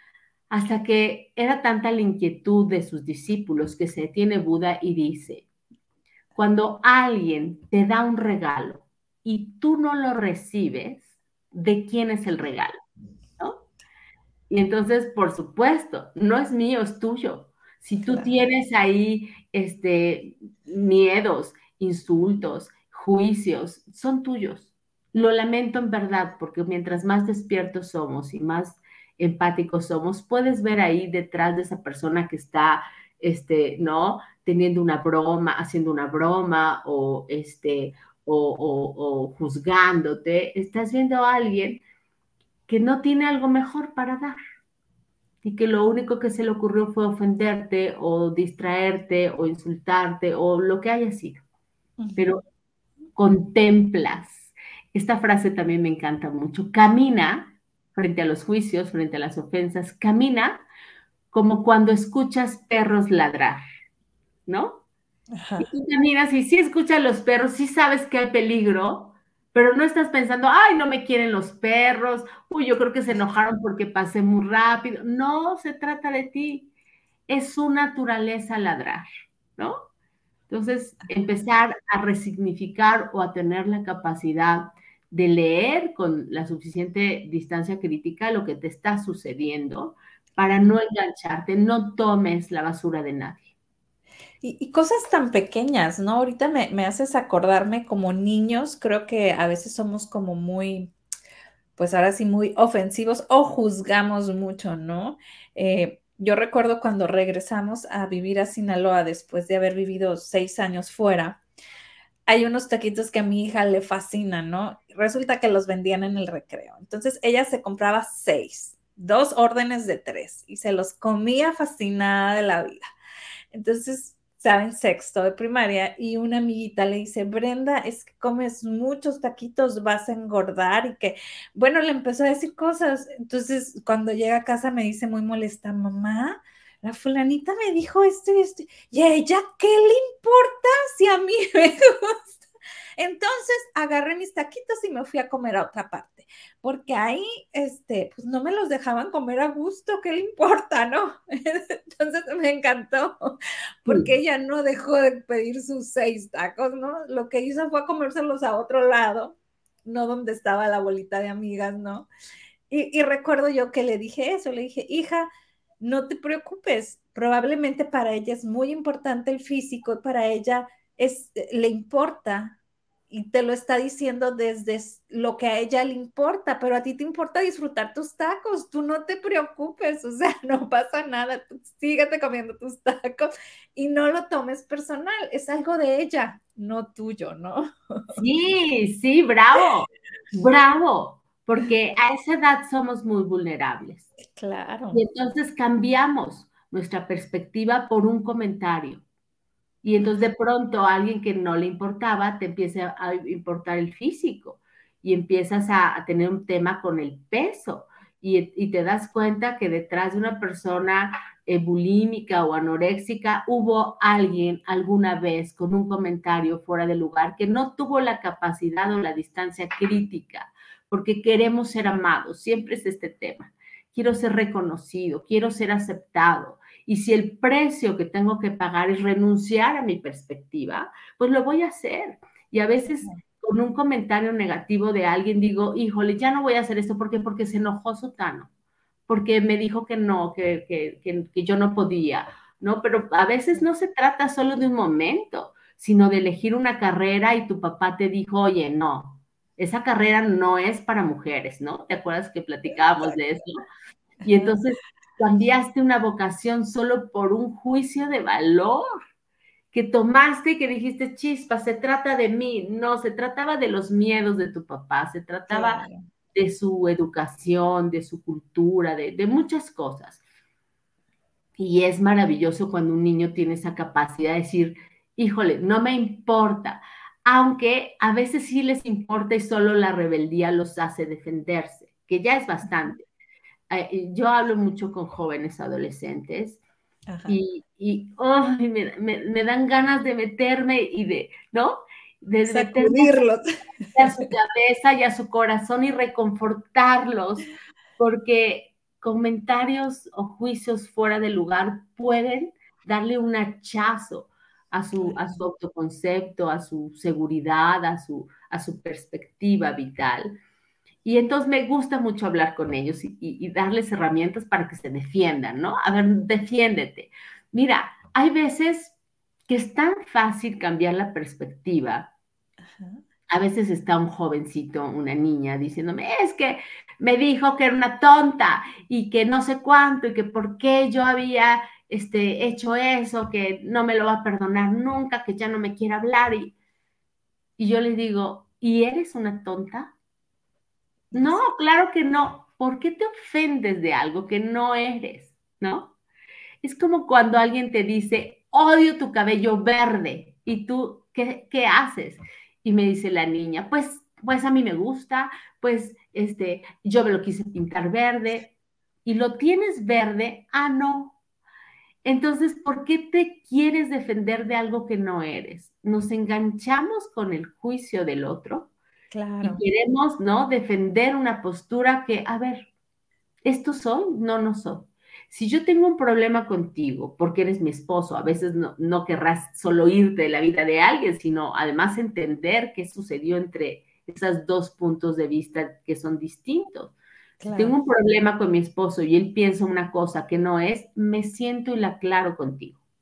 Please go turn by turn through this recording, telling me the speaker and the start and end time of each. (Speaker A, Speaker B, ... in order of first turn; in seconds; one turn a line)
Speaker A: 0.5-5.5
Speaker A: 6.4-12.8
Speaker A: 14.5-41.8
Speaker B: 18.1-18.3
Speaker A: 42.7-44.4
Speaker A: 45.4-51.4
Speaker B: 52.0-52.3
Speaker A: 52.2-52.4
Speaker A: 53.2-60.6
Speaker A: 61.3-63.6
Speaker A: 64.5-64.8
Speaker B: 65.3-65.7
Speaker A: 65.6-76.7
Speaker A: 77.3-79.8
Speaker A: 80.5-93.5
Speaker B: 94.4-100.9
Speaker B: 101.8-111.4
Speaker B: 112.3-122.8
Speaker B: 123.5-142.4
Speaker B: 143.0-162.1
Speaker A: 153.9-154.1
Speaker B: 162.7-165.3
Speaker B: 165.8-172.6
Speaker B: 173.1-188.2
Speaker A: 188.2-194.1
Speaker B: 194.2-195.0
Speaker A: 194.9-199.0
Speaker A: 199.8-238.5
Speaker A: 239.1-253.6
Speaker B: 254.2-254.6
Speaker A: 254.2-258.8
Speaker A: 259.7-265.8
Speaker B: 265.5-266.0
Speaker A: 266.3-270.2
Speaker A: 271.6-283.0
Speaker A: 283.7-286.6
Speaker B: 287.1-287.4
Speaker A: 287.3-293.2
Speaker B: 292.5-294.2
Speaker A: 293.9-297.5
Speaker A: 298.0-310.4
Speaker A: 311.1-318.9
Speaker A: 319.5-322.1
Speaker B: 322.7-323.0
Speaker A: 323.3-336.6
Speaker A: 337.6-339.9
Speaker B: 341.1-341.4
Speaker A: 341.1-345.9
Speaker A: 346.6-358.5
Speaker A: 359.1-361.2
Speaker A: 362.0-368.7
Speaker B: 369.1-369.6
Speaker A: 369.4-372.7
Speaker A: 373.4-387.0
Speaker B: 387.4-387.8
Speaker A: 387.6-392.8